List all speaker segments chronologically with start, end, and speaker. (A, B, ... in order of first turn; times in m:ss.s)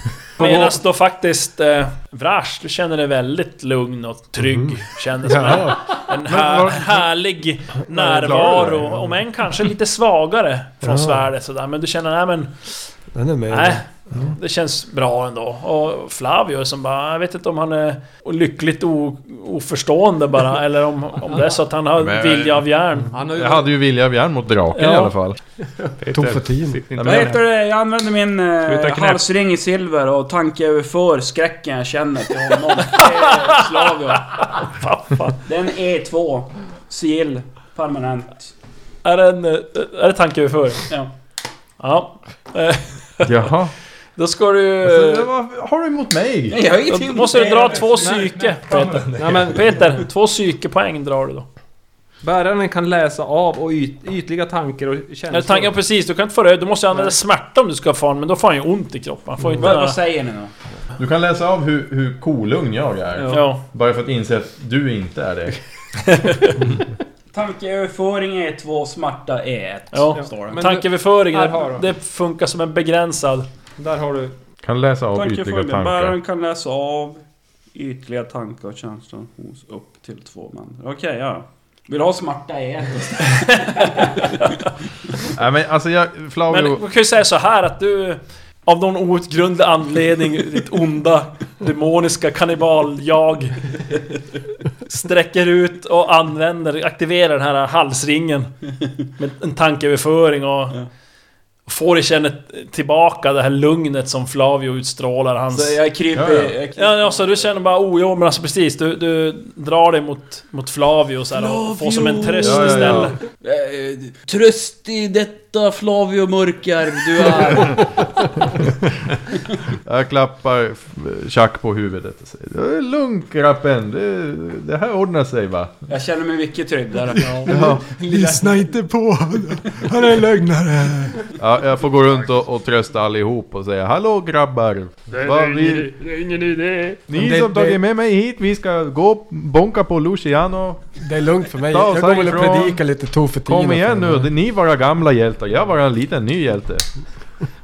0:00.4-0:12.9 A
0:04.4-0:06.0 B
0:06.3-0:07.0 C
0:08.0-0:08.9 C
0:10.8-0:11.3 B
0:13.1-0:14.3 B
0:13.5-0:23.1 A
0:21.3-0:21.6 D
0:22.0-0:22.6 C
0:23.1-0:23.7 D
0:23.3-0:25.4 C
0:24.7-0:25.1 A
0:26.0-0:27.4 E
0:26.1-0:26.8 B
0:27.0-0:27.4 C
0:27.0-0:34.7 F
0:28.6-0:29.2 E
0:32.8-0:33.6 A
0:34.3-0:35.4 A
0:35.4-0:38.5 F
0:39.0-0:40.9 A
0:41.8-0:43.5 A
0:43.2-0:43.7 C
0:44.2-0:45.3 A
0:44.8-0:46.6 C
0:46.5-0:48.2 F
0:46.9-0:51.4 A
0:48.0-0:49.6 E
0:49.2-0:50.0 D
0:52.2-0:55.8 D
0:55.3-1:00.0 A
0:59.6-1:00.5 F
1:01.0-1:05.6 C
1:03.2-1:03.4 D
1:03.3-1:03.6 A
1:07.3-1:10.6 F
1:09.9-1:13.5 A
1:10.2-1:11.8 D
1:13.8-1:14.3 D
1:14.6-1:16.2 C
1:15.2-1:17.2 F
1:17.7-1:24.3 F
1:23.6-1:24.4 A
1:25.3-1:26.8 C
1:26.5-1:33.8 A
1:34.8-1:38.5 A
1:39.2-1:40.8 A
1:41.7-1:45.8 A
1:45.5-1:47.4 F
1:46.1-1:46.5 C
1:46.8-1:53.2 A
1:51.3-1:58.6 F
1:52.4-1:53.2 C
1:59.8-2:05.7 C
2:05.9-2:07.5 F
2:07.2-2:08.6 D
2:07.4-2:07.9 C
2:08.1-2:11.1 E
2:08.1-2:11.1 B
2:11.4-2:16.0 C
2:15.1-2:17.0 G
2:17.1-2:20.9 C
2:17.1-2:17.8 B
2:21.0-2:24.3 B
2:21.6-2:22.8 C
2:23.4-2:26.8 C